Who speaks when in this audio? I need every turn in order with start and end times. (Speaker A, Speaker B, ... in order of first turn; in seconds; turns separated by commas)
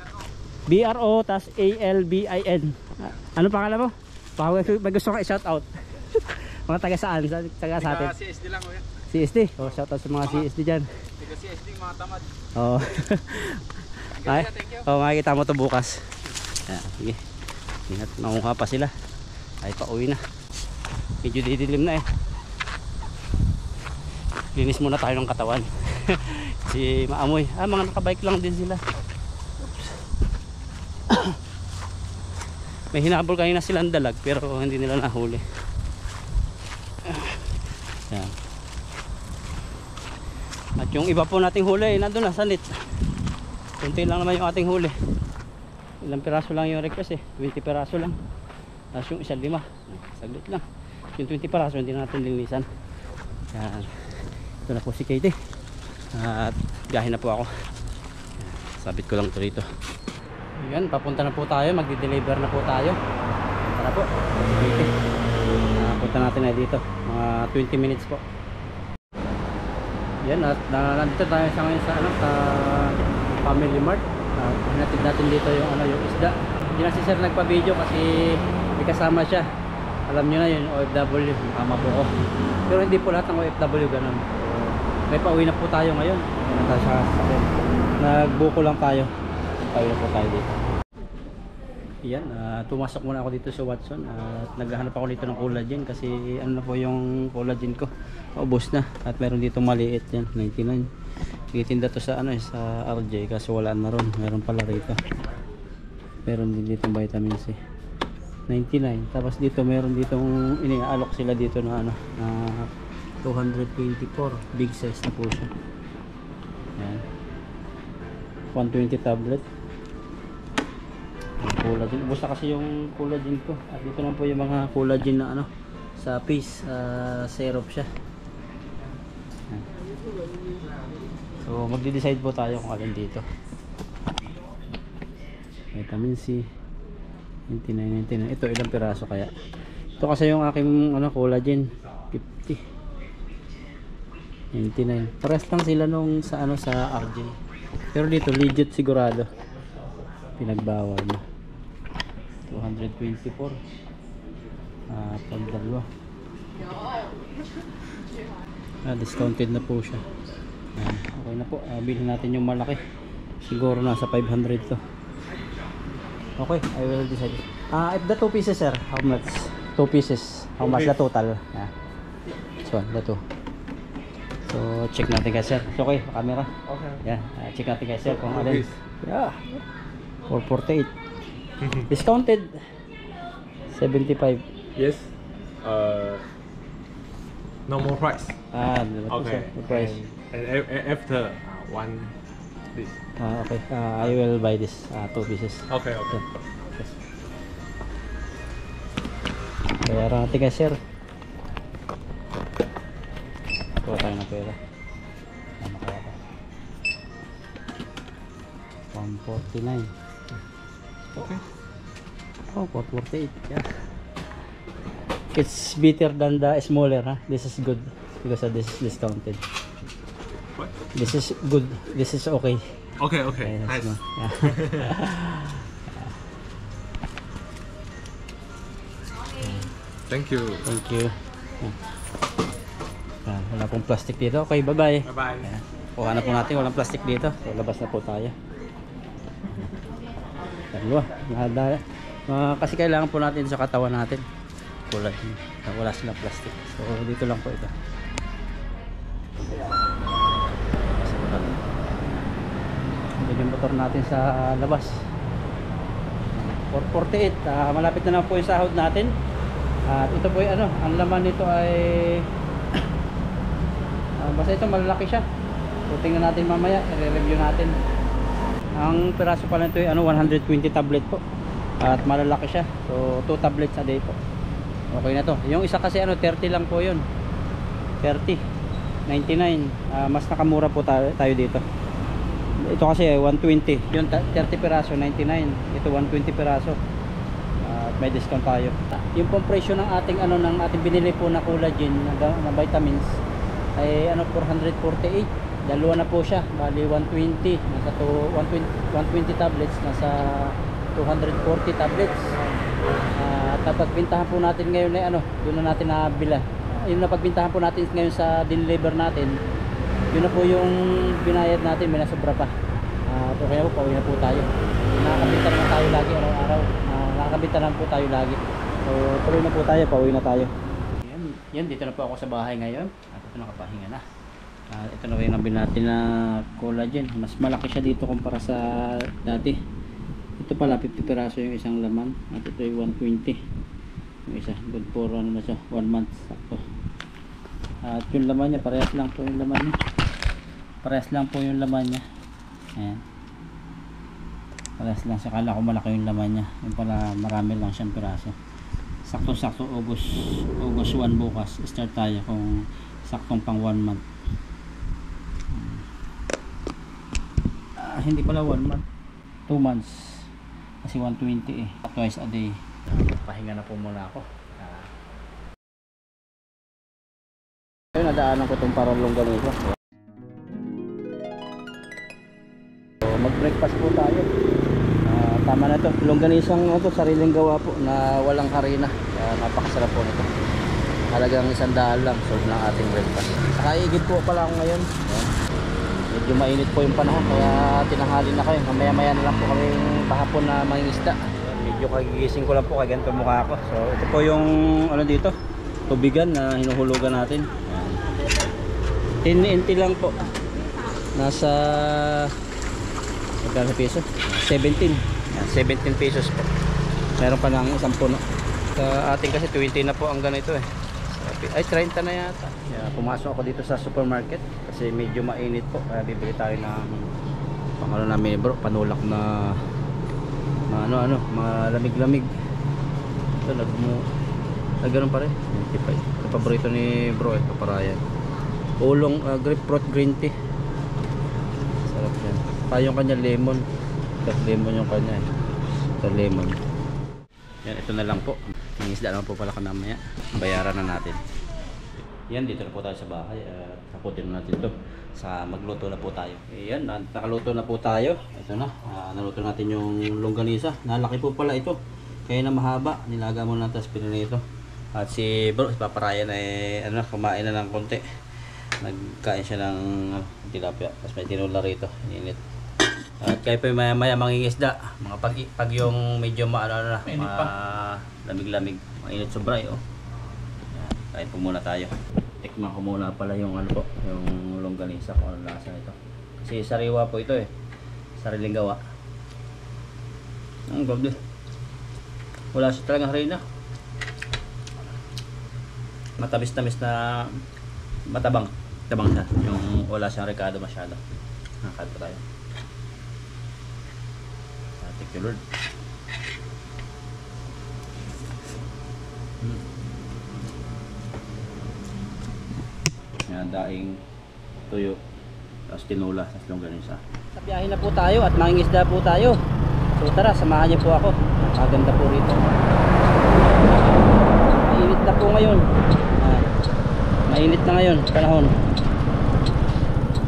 Speaker A: 0.7-8.2, Speaker B: 8.2-8.8, Speaker A: 9.0-10.9, Speaker B: 11.3-12.2, Speaker A: 12.6-16.1, Speaker A: 16.7-17.2, Speaker A: 17.9-18.9, Speaker A: 19.6-20.2, Speaker A: 21.2-22.0, Speaker A: 24.6-28.8, Speaker A: 29.6-29.9, Speaker A: 31.1-31.4, Speaker A: 32.9-35.4, Speaker A: 37.1-37.4, Speaker A: 40.8-42.7, Speaker A: 43.8-45.0, Speaker A: 46.0-48.1, Speaker A: 48.9-50.6, Speaker A: 51.2-52.7, Speaker A: 53.5-55.4, Speaker A: 56.1-57.5, Speaker A: 58.4-59.7, Speaker A: 60.6-63.0, Speaker A: 63.7-64.9, Speaker A: 65.8-68.2, Speaker A: 70.2-79.5, Speaker A: 80.1-82.1, Speaker A: 82.7-89.1, Speaker A: 89.6-90.6, Speaker A: 92.0-100.9, Speaker A: 101.5-105.0, Speaker A: 106.3-107.6, Speaker A: 108.5-112.7, Speaker A: 113.2-115.5, Speaker A: 116.8-117.0, Speaker A: 118.5-119.5, Speaker A: 121.4-127.9, Speaker A: 131.4-133.2, Speaker A: 135.7-136.5, Speaker A: 137.5-139.3, Speaker A: 140.0-142.6, Speaker A: 144.5-147.3, Speaker A: 147.9-149.3, Speaker A: 150.4-151.2, Speaker A: 152.5-153.6, Speaker A: 154.9-155.9, Speaker A: 158.8-160.0, Speaker A: 160.8-162.8, Speaker A: 163.4-164.8, Speaker A: 166.4-171.7, Speaker C: 170.6-170.9, Speaker A: 172.6-173.2, Speaker A: 174.5-176.5, Speaker C: 176.7-177.0, Speaker A: 177.0-179.6, Speaker C: 178.1-178.7, Speaker A: 180.3-180.9, Speaker A: 181.9-182.6, Speaker A: 183.7-184.4, Speaker C: 184.8-185.1, Speaker C: 185.6-186.3, Speaker C: 187.7-188.4, Speaker A: 188.5-190.1, Speaker C: 189.1-192.1, Speaker A: 193.2-196.2, Speaker C: 195.7-196.2, Speaker A: 199.8-200.8, Speaker A: 203.8-204.6, Speaker A: 205.6-206.2, Speaker A: 208.9-209.9, Speaker C: 211.2-211.4, Speaker A: 212.5-213.7, Speaker A: 215.3-219.4, Speaker A: 220.9-222.7, Speaker C: 223.0-225.0, Speaker A: 223.4-226.1, Speaker A: 229.4-229.7, Speaker C: 230.1-230.7, Speaker A: 230.7-231.8, Speaker A: 233.2-238.3, Speaker C: 235.1-235.5, Speaker A: 240.7-244.2, Speaker A: 244.9-247.7, Speaker A: 250.9-251.6, Speaker A: 253.2-255.0, Speaker A: 256.3-259.1, Speaker A: 259.9-262.3, Speaker A: 264.2-265.2, Speaker A: 265.9-267.8, Speaker A: 268.8-271.2, Speaker A: 271.8-274.2, Speaker A: 274.9-277.1, Speaker A: 278.0-278.4, Speaker A: 279.1-281.6, Speaker A: 282.6-286.8, Speaker A: 287.6-293.1, Speaker A: 293.8-302.3, Speaker A: 303.1-309.4, Speaker A: 310.1-312.5, Speaker A: 313.1-324.0, Speaker A: 324.7-329.6, Speaker A: 330.4-333.4, Speaker A: 334.3-336.6, Speaker A: 337.8-339.8, Speaker A: 340.8-342.1, Speaker A: 342.8-343.0, Speaker A: 344.8-348.4, Speaker A: 349.1-354.0, Speaker A: 355.5-355.8, Speaker A: 357.8-358.8, Speaker A: 359.5-360.3, Speaker A: 360.8-364.9, Speaker A: 367.9-369.8, Speaker A: 373.0-374.3, Speaker A: 375.0-380.3, Speaker A: 381.1-385.3, Speaker A: 386.1-395.3, Speaker A: 395.9-398.0, Speaker A: 399.2-400.2, Speaker A: 401.1-402.4, Speaker A: 403.4-406.5, Speaker A: 407.2-408.2, Speaker A: 408.7-417.1, Speaker A: 417.8-419.6, Speaker A: 420.7-422.3, Speaker A: 423.4-424.1, Speaker A: 424.8-428.0, Speaker A: 428.8-430.4, Speaker A: 431.9-433.6, Speaker A: 434.2-435.3, Speaker A: 436.0-436.6, Speaker A: 437.6-441.2, Speaker A: 442.3-458.1, Speaker A: 458.8-462.4, Speaker A: 463.2-469.8, Speaker B: 467.1-467.5, Speaker A: 470.7-477.5, Speaker A: 478.2-478.8, Speaker A: 480.7-481.2, Speaker A: 482.5-483.4, Speaker A: 486.2-487.4, Speaker A: 488.1-491.0, Speaker A: 491.6-492.2, Speaker A: 494.8-495.4, Speaker A: 503.3-504.0, Speaker A: 504.7-505.0, Speaker A: 505.7-509.4, Speaker A: 510.0-515.6, Speaker A: 516.2-516.5, Speaker A: 517.3-518.5